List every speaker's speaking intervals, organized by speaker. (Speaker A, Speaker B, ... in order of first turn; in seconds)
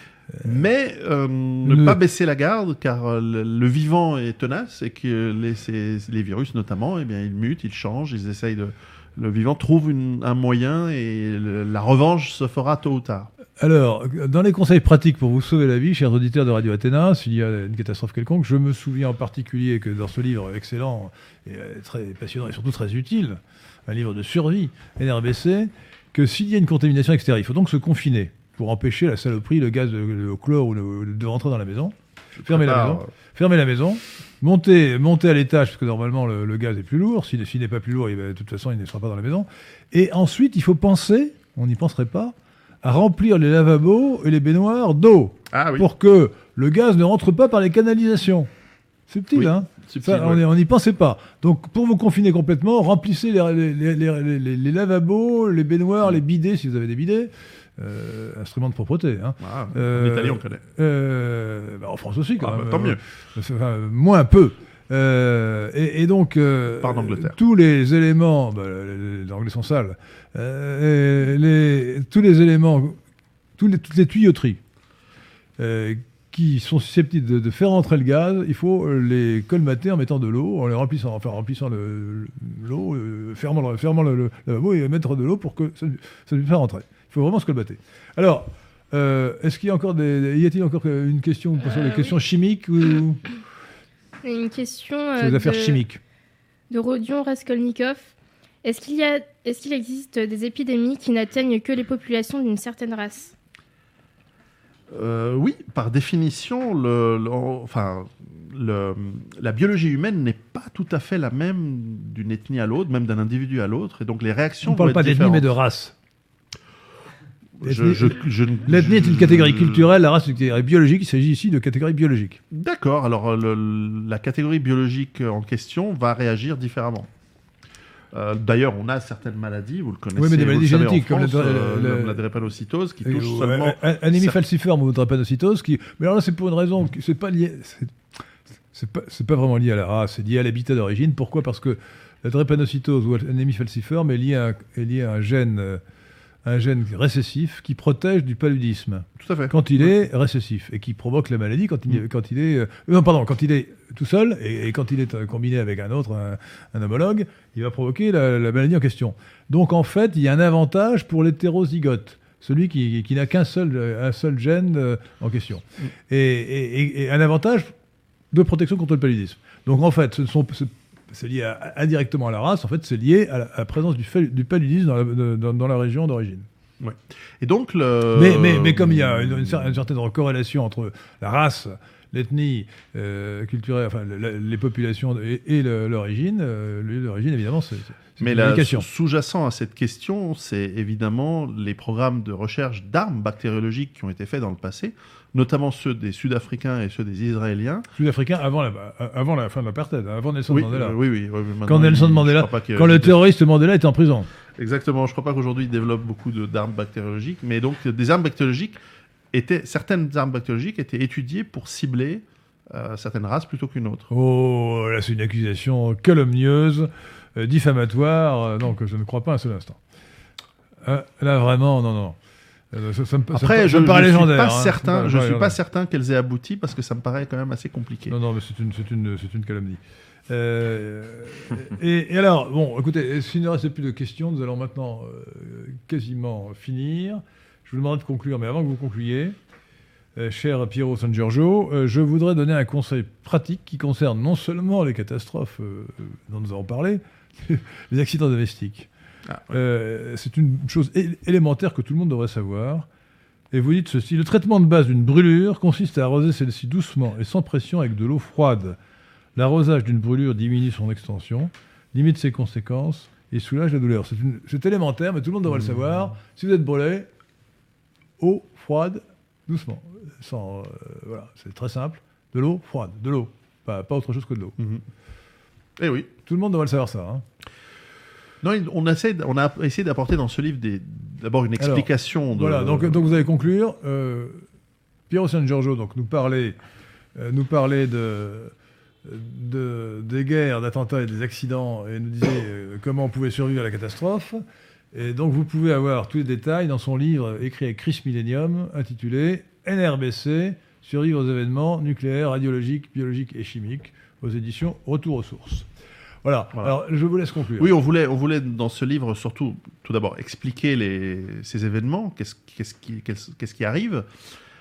Speaker A: 0.4-13.3, 32.4-33.1, 45.5-45.9, 49.3-50.4, 59.4-60.6, 62.4-63.0, 66.8-67.4, 104.9-115.5, 117.6-119.9, 122.5-127.1, 128.1-134.4, 149.2-149.9, 176.8-179.7, 188.2-197.9, 200.5-203.2, 204.6-208.8, 209.3-214.1, 223.3-228.2, 265.5-265.7, 274.6-274.8, 275.8-276.1, 278.4-283.1, 307.6-314.1
Speaker B: 1.6-2.0, 13.6-48.5, 49.1-73.0, 73.6-74.6, 75.6-93.2, 95.2-96.0, 114.6-115.9, 117.6-122.4, 130.2-132.2, 133.0-138.0, 138.7-145.8, 146.4-167.7, 168.3-176.5, 178.1-188.9, 197.9-201.0, 201.7-204.3, 214.1-219.8, 220.8-222.2, 222.7-225.6, 228.1-239.3, 240.2-248.9, 249.5-252.9, 253.5-258.8, 259.4-267.1, 268.2-274.6, 276.2-277.2, 281.6-284.5, 285.1-286.6, 287.1-288.5, 289.0-305.7, 306.2-307.7
Speaker C: 94.2-95.8, 96.7-103.3